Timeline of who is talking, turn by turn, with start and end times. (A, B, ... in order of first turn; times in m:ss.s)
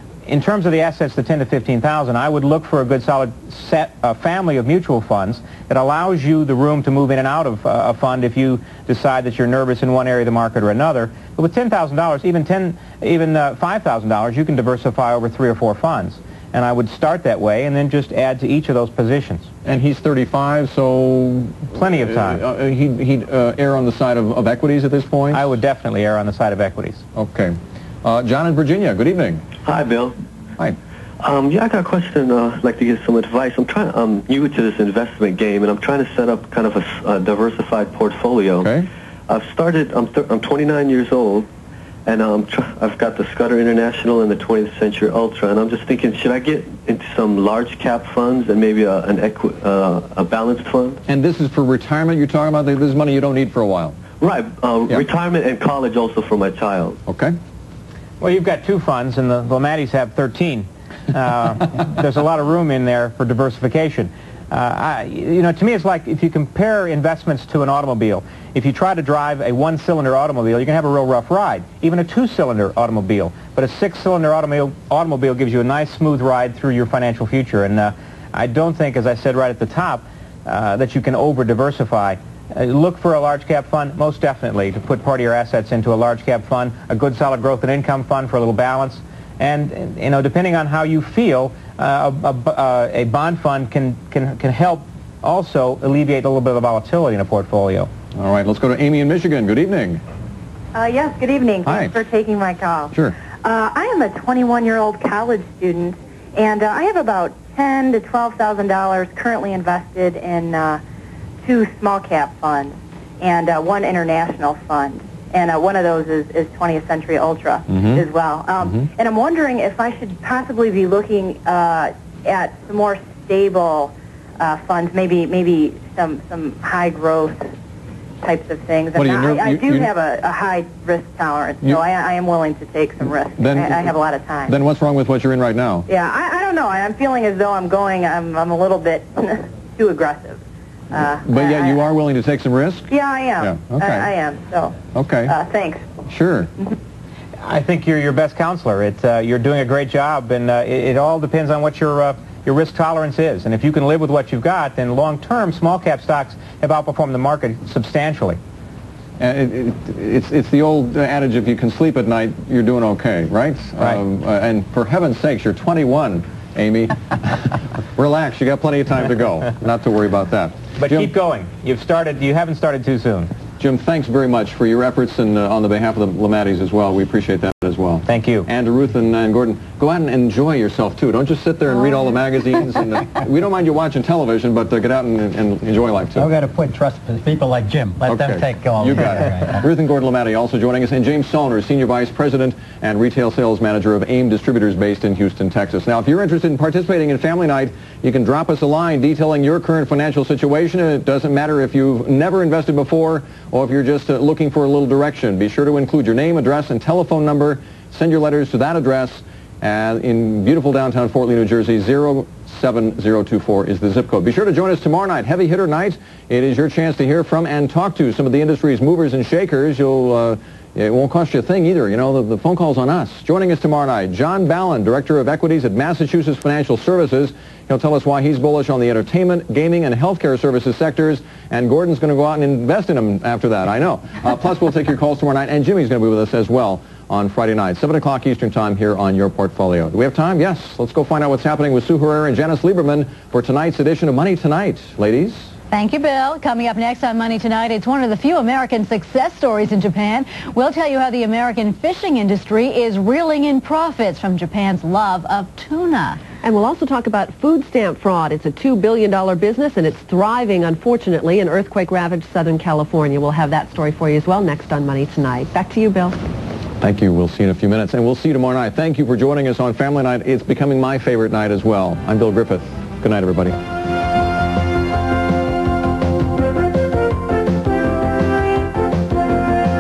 0:00.3-0:19.5 A
0:19.6-0:25.5 B
0:21.7-0:22.4 A
0:25.3-0:27.0 A
0:27.2-0:29.4 B
0:29.7-0:30.2 C
0:31.2-0:38.7 C
0:38.6-0:38.9 B
0:39.3-0:41.5 C
0:42.0-0:51.0 C
0:51.1-0:54.0 B
0:54.2-0:57.0 C
0:57.1-0:57.4 B
0:58.2-1:37.9 A
1:38.2-1:40.0 B
1:40.8-1:50.8 D
1:41.7-1:42.0 B
1:51.4-2:07.5 D
1:57.7-1:58.0 B
2:08.2-2:14.6 D
2:09.0-2:09.9 B
2:13.4-2:13.9 B
2:14.5-2:15.9 B
2:15.9-2:21.8 D
2:21.2-2:24.1 B
2:22.9-2:25.8 D
2:24.9-2:25.4 B
2:26.1-2:26.5 B
2:27.4-2:38.4 A
2:39.2-2:51.1 B
2:50.8-2:53.3 A
2:53.6-3:06.3 B
2:58.1-2:58.5 A
3:06.2-3:09.7 E
3:08.1-4:05.5 B
4:05.7-4:16.2 F
4:16.3-4:26.2 G
4:26.8-4:33.6 B